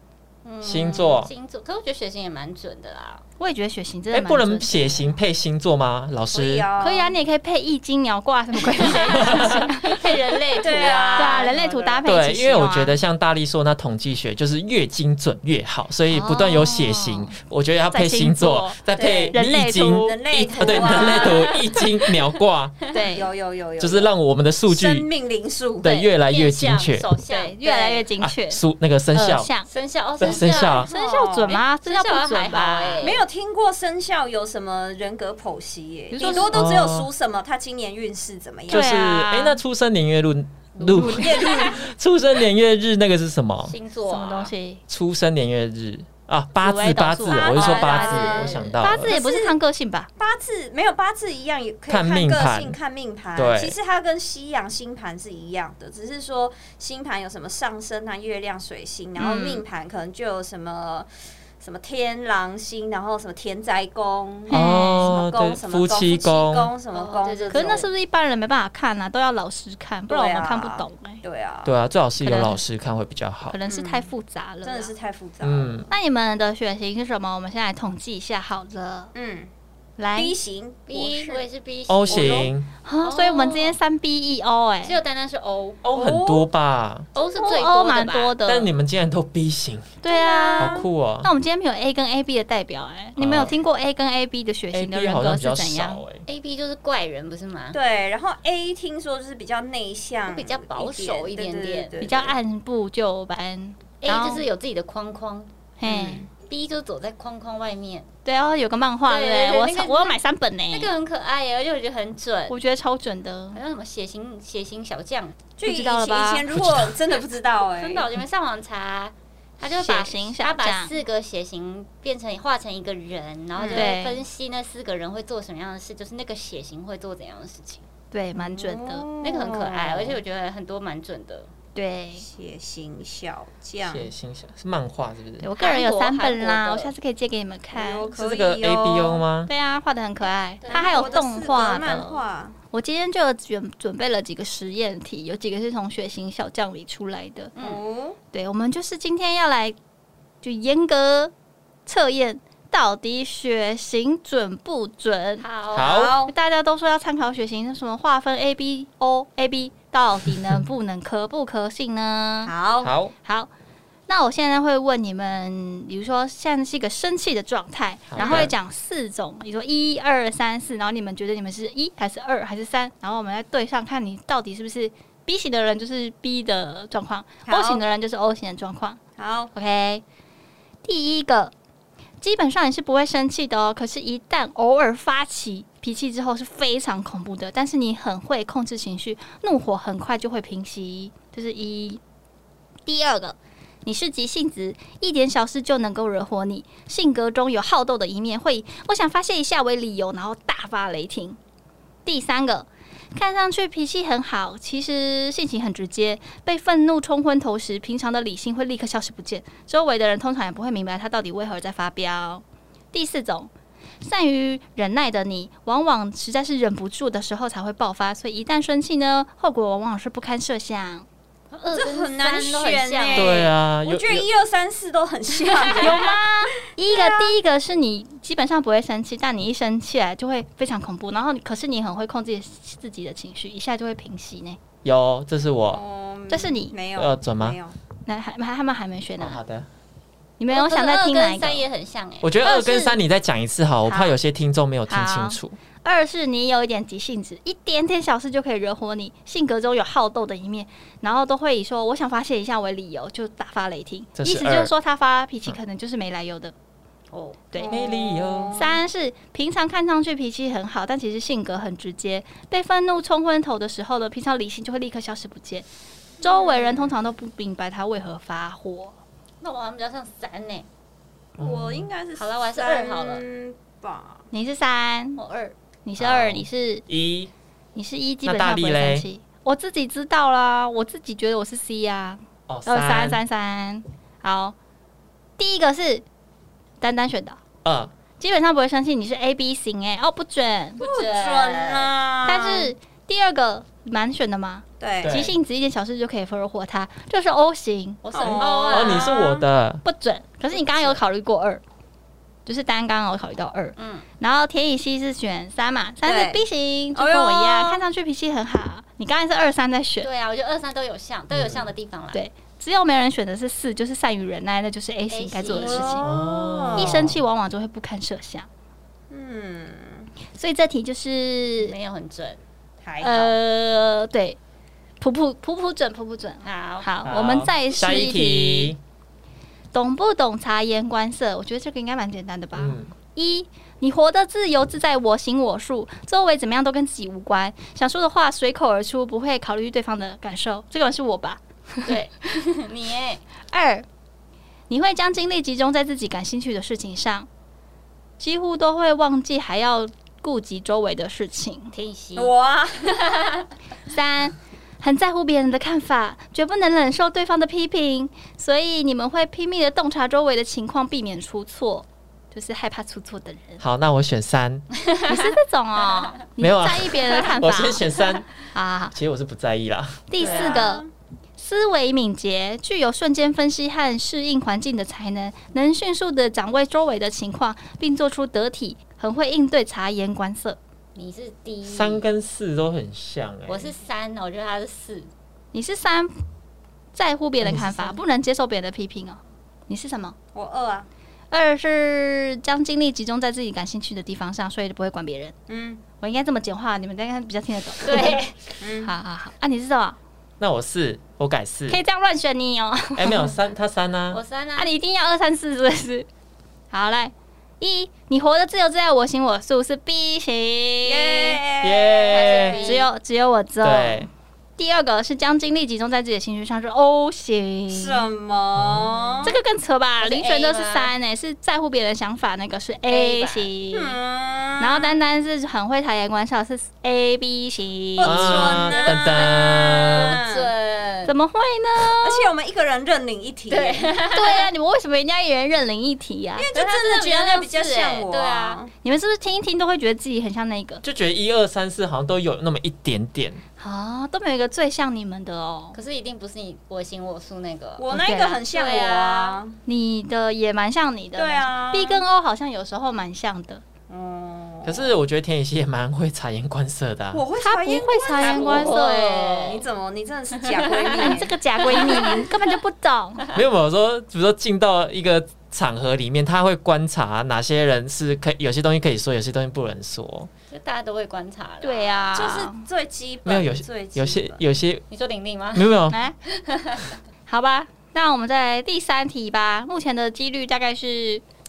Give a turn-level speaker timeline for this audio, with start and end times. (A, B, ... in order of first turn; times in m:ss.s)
0:00.4-0:03.2 A
0:00.6-0:01.3 B
0:00.7-0:01.2 C
0:03.4-0:05.0 D
0:04.1-0:06.7 B
0:06.3-0:07.2 C
0:06.8-0:13.0 D
0:08.8-0:09.2 C
0:08.9-0:11.5 A
0:09.2-0:09.6 B
0:10.6-0:12.0 C
0:12.0-0:22.8 B
0:16.1-0:17.3 D
0:17.9-0:18.8 D
0:18.9-0:19.4 C
0:19.3-0:21.0 D
0:19.9-0:21.6 C
0:20.9-0:22.1 A
0:22.9-0:23.3 D
0:23.1-0:24.1 C
0:23.8-0:25.1 B
0:24.6-0:25.9 C
0:25.8-0:27.1 B
0:25.8-0:28.0 A
0:27.3-0:28.6 D
0:28.2-0:29.5 B
0:29.1-0:29.7 D
0:29.6-0:30.9 A
0:30.2-0:30.9 B
0:30.2-0:31.6 C
0:30.9-0:33.1 D
0:31.7-0:33.2 A
0:33.0-0:38.9 C
0:36.1-0:36.6 D
0:36.3-0:37.1 B
0:38.7-0:43.7 B
0:38.7-0:39.6 D
0:40.8-0:41.6 D
0:40.9-0:41.9 C
0:41.4-0:41.7 A
0:43.6-0:44.5 A
0:44.1-0:44.8 D
0:44.9-0:49.1 B
0:46.6-0:47.8 D
0:47.3-0:49.5 C
0:47.5-0:48.8 A
0:48.8-0:50.1 D
0:50.2-1:01.1 C
0:51.9-0:52.8 B
0:53.3-0:53.8 B
0:59.2-0:59.6 D
1:01.6-1:07.8 C
1:04.5-1:05.2 D
1:04.5-1:06.7 B
1:06.9-1:07.9 A
1:07.5-1:11.2 D
1:10.1-1:11.7 C
1:11.6-1:13.6 B
1:12.2-1:12.6 D
1:13.5-1:14.9 D
1:13.6-1:14.1 C
1:14.6-1:15.9 C
1:15.4-1:15.9 B
1:15.9-1:19.1 D
1:19.1-1:19.5 C
1:20.0-1:20.3 D
1:20.2-1:21.4 C
1:20.9-1:22.5 A
1:21.9-1:22.7 B
1:22.1-1:22.5 C
1:22.8-1:25.0 D
1:23.0-1:23.8 A
1:24.8-1:25.8 A
1:25.8-1:27.1 B
1:25.9-1:26.5 C
1:27.1-1:28.4 A
1:27.2-1:27.6 C
1:27.4-1:28.7 D
1:28.4-1:30.0 B
1:30.0-1:36.0 D
1:30.1-1:30.9 C
1:30.6-1:31.3 B
1:33.2-1:33.5 B
1:34.7-1:36.2 B
1:36.2-1:37.8 A
1:37.7-1:42.3 C
1:40.2-1:42.0 A
1:42.0-1:44.4 D
1:44.0-1:45.5 A
1:45.8-1:46.2 D
1:45.8-1:46.3 C
1:46.3-1:48.1 A
1:48.2-1:50.9 D
1:49.1-1:50.2 A
1:50.7-1:52.6 A
1:52.5-1:53.6 D
1:53.5-1:55.4 A
1:55.6-1:58.1 C
1:55.6-1:56.4 D
1:56.5-1:56.9 B
1:57.6-2:07.8 A
1:59.7-2:00.9 D
2:03.6-2:03.9 C
2:03.7-2:04.2 D
2:08.1-2:09.1 D
2:08.3-2:10.2 C
2:09.2-2:11.5 A
2:11.7-2:12.2 D
2:12.2-2:14.1 C
2:13.8-2:15.5 B
2:15.4-2:18.1 D
2:15.6-2:16.9 A
2:17.7-2:19.2 C
2:18.2-2:19.5 B
2:19.5-2:22.2 D
2:20.6-2:21.2 A
2:20.7-2:22.6 C
2:22.7-2:27.5 D
2:27.6-2:27.8 A
2:27.6-2:28.2 C
2:28.3-2:29.8 D
2:30.4-2:31.3 D
2:31.8-2:35.4 D
2:35.4-2:36.0 A
2:35.7-2:36.2 B
2:35.7-2:36.3 C
2:36.2-2:42.5 D
2:42.4-2:42.9 C
2:42.8-2:43.1 B
2:43.2-2:43.5 D
2:44.1-2:59.0 D
2:48.1-2:48.5 B
2:48.2-2:48.5 C
2:57.4-2:57.8 C
2:59.2-2:59.5 C
2:59.5-3:00.0 D
3:00.8-3:01.5 D
3:02.2-3:12.0 D
3:12.8-3:21.4 D
3:22.0-3:33.5 D
3:34.0-3:41.1 D
3:41.5-3:43.5 A
3:41.7-3:46.2 C
3:43.1-3:44.2 B
3:45.4-3:46.0 A
3:45.8-3:54.6 D
3:46.8-3:47.4 C
3:54.8-3:55.8 B
3:55.7-3:57.7 C
3:56.3-3:56.7 D
3:56.9-3:57.6 B
3:58.0-3:59.4 D
3:59.2-3:59.7 B
4:00.4-4:01.6 D
4:00.5-4:02.3 A
4:02.2-4:05.6 B
4:02.4-4:03.0 D
4:04.9-4:16.5 D
4:14.2-4:14.7 B
4:17.1-4:17.4 A
4:17.5-4:17.8 D
4:17.6-4:18.8 C
4:17.6-4:18.6 B
4:18.5-4:25.6 D
4:26.2-4:28.9 D
4:26.2-4:26.9 C
4:29.4-4:30.6 A
4:31.4-4:31.9 B
4:31.4-4:34.2 C
4:32.2-4:33.2 A
4:34.3-4:35.2 D
4:35.2-4:35.5 A
4:35.8-4:36.8 D
4:36.0-4:37.3 B
4:37.7-4:44.5 D
4:38.2-4:39.0 B
4:42.5-4:43.2 B
4:45.4-4:46.0 D
4:46.8-4:47.4 D
4:47.6-4:47.9 B
4:48.2-4:50.8 D
4:50.8-4:51.9 A
4:50.8-4:52.7 C
4:52.2-4:58.4 D
4:54.8-4:55.2 C
4:55.0-4:55.3 B
4:58.0-4:59.1 A
4:58.1-4:59.4 C
4:58.6-4:59.8 B
4:59.8-5:01.6 D
5:00.5-5:01.0 A
5:02.4-5:10.1 D
5:03.8-5:04.0 A
5:06.0-5:07.8 C
5:10.0-5:12.2 A
5:11.3-5:11.7 B
5:12.1-5:16.1 D
5:15.1-5:16.0 A
5:15.5-5:17.1 C
5:16.0-5:17.2 B
5:16.7-5:18.5 D
5:19.1-5:20.1 C
5:20.4-5:21.7 D
5:21.6-5:22.4 A
5:22.8-5:23.3 C
5:23.0-5:24.4 D
5:25.0-5:28.7 D
5:26.4-5:26.9 A
5:27.0-5:28.8 B
5:29.7-5:42.0 D
5:32.5-5:32.9 B
5:41.8-5:43.2 A
5:43.5-5:43.8 D
5:44.7-5:47.3 D
5:48.2-5:51.7 D
5:51.7-5:52.3 A
5:52.2-5:53.3 C
5:53.9-6:03.6 D
6:03.6-6:04.6 B
6:05.1-6:08.9 D
6:06.4-6:08.3 B
6:08.9-6:10.1 B
6:10.1-6:10.8 D
6:10.2-6:10.9 C
6:10.2-6:10.6 A
6:11.4-6:20.6 D
6:20.9-6:22.0 A
6:21.6-6:23.7 B
6:23.5-6:25.1 A
6:25.5-6:26.2 D
6:26.9-6:30.2 D
6:27.4-6:28.0 B
6:30.3-6:30.9 C
6:31.3-6:35.3 D
6:35.5-6:35.8 C
6:36.0-6:38.2 D
6:37.8-6:38.4 A
6:38.6-6:38.9 C
6:38.8-6:40.0 D
6:40.4-6:41.8 B
6:41.7-6:43.3 D
6:43.0-6:44.2 B
6:44.1-6:44.7 A
6:44.6-6:46.1 D
6:46.7-6:51.4 D
6:50.8-6:52.8 C
6:51.6-6:52.6 B
6:52.1-6:52.9 A
6:52.6-6:58.0 D
6:53.6-6:54.1 B
6:57.7-6:59.4 C
6:58.6-6:59.1 B
6:59.2-7:04.0 D
7:00.0-7:00.9 A
7:02.9-7:03.5 A
7:03.7-7:05.0 C
7:04.6-7:08.6 D
7:08.0-7:10.5 C
7:08.0-7:10.2 B
7:08.5-7:11.1 A
7:11.0-7:12.3 D
7:12.0-7:14.0 C
7:13.5-7:14.5 A
7:14.1-7:16.5 D
7:16.4-7:18.7 C
7:16.5-7:18.6 A
7:18.8-7:20.8 D
7:20.8-7:23.4 B
7:23.6-7:25.8 D
7:25.7-7:27.9 A
7:27.8-7:29.6 C
7:27.9-7:28.4 D
7:28.5-7:29.4 A
7:29.6-7:33.6 D
7:31.1-7:32.0 C
7:33.9-7:35.0 C
7:34.6-7:37.2 B
7:37.1-7:42.2 C
7:37.4-7:39.1 D
7:38.2-7:39.7 A
7:40.4-7:42.3 A
7:41.0-7:43.2 D
7:43.3-7:50.3 B
7:50.5-7:52.3 A
7:51.6-7:52.6 D
7:52.1-7:54.4 C
7:53.2-7:54.8 B
7:54.9-7:55.7 A
7:55.5-7:56.0 B
7:56.2-7:56.9 A
7:57.3-8:01.2 D